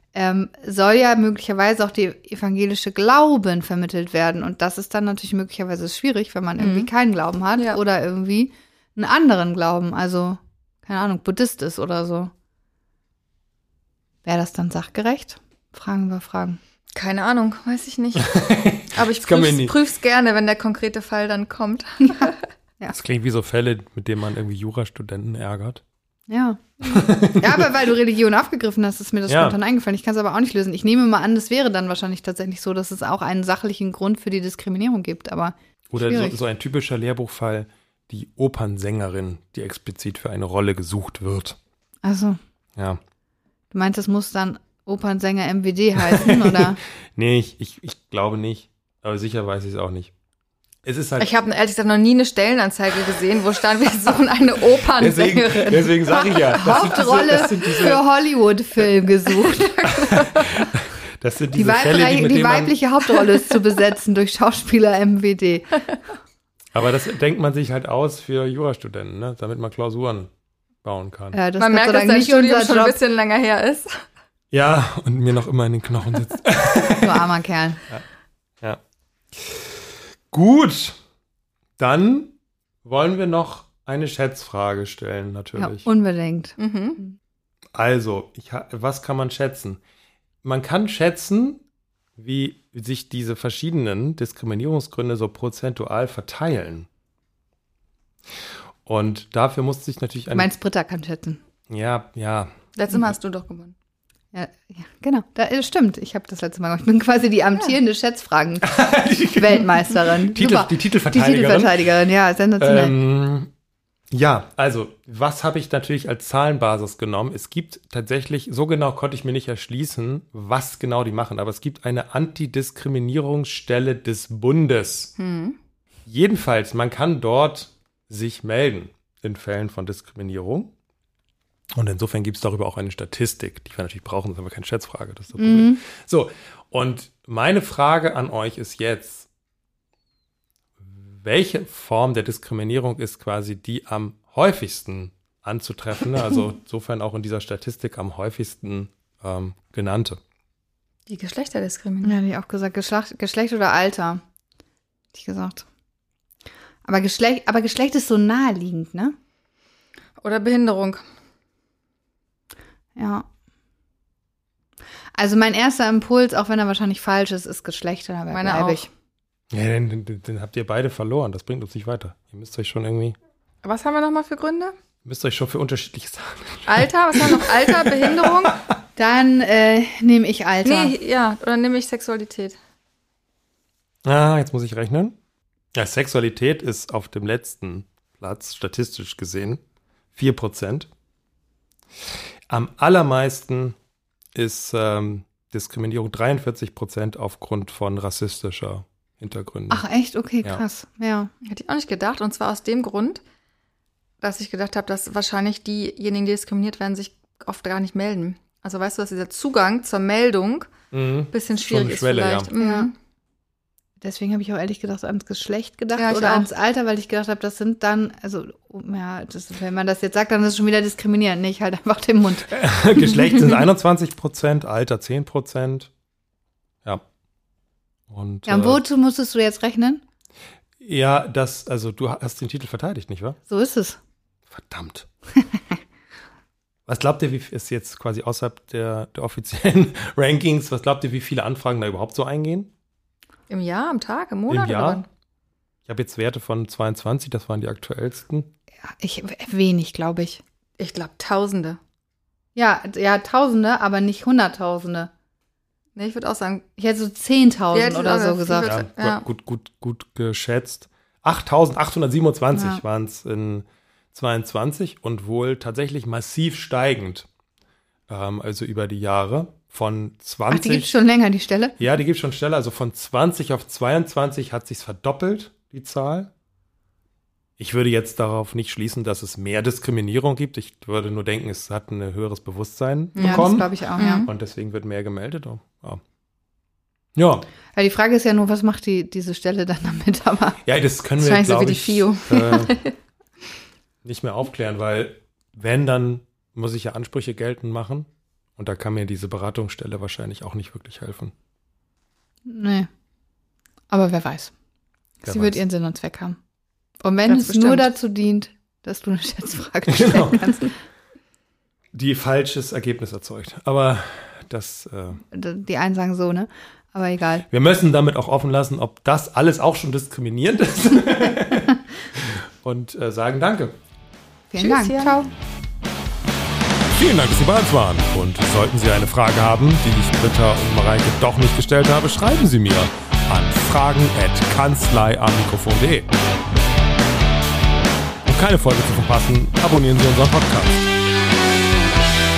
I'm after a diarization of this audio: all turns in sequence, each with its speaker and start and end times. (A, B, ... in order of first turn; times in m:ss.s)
0:00.1-0:12.3 A
0:06.6-0:06.9 B
0:14.2-0:16.6 A
0:17.0-0:22.4 B
0:18.2-0:19.7 C
0:22.1-0:23.0 A
0:23.0-0:25.8 C
0:26.3-0:26.7 A
0:26.8-0:27.7 C
0:27.4-0:36.4 A
0:29.3-0:29.6 C
0:35.9-0:41.6 C
0:42.0-0:42.4 A
0:43.7-0:46.8 A
0:46.1-0:50.1 C
0:50.8-0:51.3 C
0:51.2-0:58.0 B
0:55.0-0:58.0 C
0:56.6-0:59.7 A
0:59.2-1:00.7 B
0:59.8-1:02.7 C
1:01.5-1:05.8 A
1:06.7-1:10.3 C
1:10.8-1:11.4 C
1:11.3-1:12.9 A
1:11.6-1:14.1 B
1:14.5-1:17.2 C
1:17.0-1:17.8 A
1:19.3-1:21.0 C
1:21.8-1:25.9 C
1:25.6-1:27.2 A
1:26.6-1:27.0 B
1:27.7-1:29.8 C
1:30.4-1:31.6 C
1:32.2-1:36.9 C
1:38.8-1:40.5 C
1:40.3-1:41.4 A
1:41.7-1:42.5 C
1:42.8-1:43.7 B
1:44.3-1:48.7 A
1:48.6-1:51.9 C
1:49.4-1:52.9 A
1:52.6-1:53.5 C
1:54.1-2:05.1 C
2:05.2-2:05.6 B
2:06.1-2:10.7 C
2:11.8-2:19.3 C
2:15.4-2:15.8 A
2:20.8-2:30.2 C
2:31.1-2:32.2 B
2:32.0-2:34.2 A
2:35.1-2:35.6 A
2:36.8-2:39.2 A
2:40.2-2:41.0 B
2:43.0-2:43.3 A
2:45.1-2:48.9 A
2:48.3-2:48.9 B
2:49.5-2:53.2 C
2:53.6-2:54.7 B
2:55.0-2:58.7 C
2:56.7-2:58.6 B
2:59.0-3:00.9 A
3:00.6-3:02.6 B
3:04.0-3:05.2 C
3:05.7-3:09.6 C
3:10.1-3:10.9 C
3:12.5-3:13.8 C
3:14.4-3:19.8 C
3:19.7-3:21.3 A
3:21.4-3:23.2 B
3:24.2-3:30.7 B
3:30.9-3:32.5 C
3:31.3-3:32.9 B
3:32.6-3:32.9 A
3:34.0-3:42.5 A
3:36.0-3:36.5 B
3:42.5-3:45.9 C
3:48.1-3:48.8 C
3:48.4-3:50.0 A
3:50.8-3:53.4 C
3:53.5-3:54.0 A
3:54.5-3:55.1 C
3:55.4-3:55.8 A
3:56.9-4:02.7 C
4:03.5-4:05.1 B
4:04.5-4:05.0 C
4:05.9-4:08.5 C
4:08.8-4:10.4 A
4:10.8-4:11.8 B
4:12.6-4:15.1 A
4:16.0-4:16.7 B
4:16.8-4:18.7 A
4:17.7-4:19.2 B
4:18.6-4:27.3 C
4:22.5-4:22.8 A
4:28.1-4:30.9 C
4:30.5-4:31.8 A
4:31.8-4:36.3 C
4:37.6-4:46.0 C
4:43.1-4:44.3 B
4:43.2-4:44.3 A
4:47.2-4:47.4 C
4:47.7-4:50.6 A
4:50.6-4:52.7 C
4:51.2-4:52.9 B
4:54.0-5:01.3 C
5:02.5-5:02.9 A
5:03.9-5:04.5 A
5:05.2-5:05.6 C
5:05.2-5:06.4 A
5:07.0-5:10.7 A
5:07.2-5:07.9 B
5:09.9-5:10.6 C
5:11.9-5:15.2 C
5:15.3-5:17.4 A
5:17.5-5:23.8 C
5:24.5-5:25.3 A
5:24.6-5:25.2 B
5:26.9-5:36.1 C
5:38.2-5:40.9 C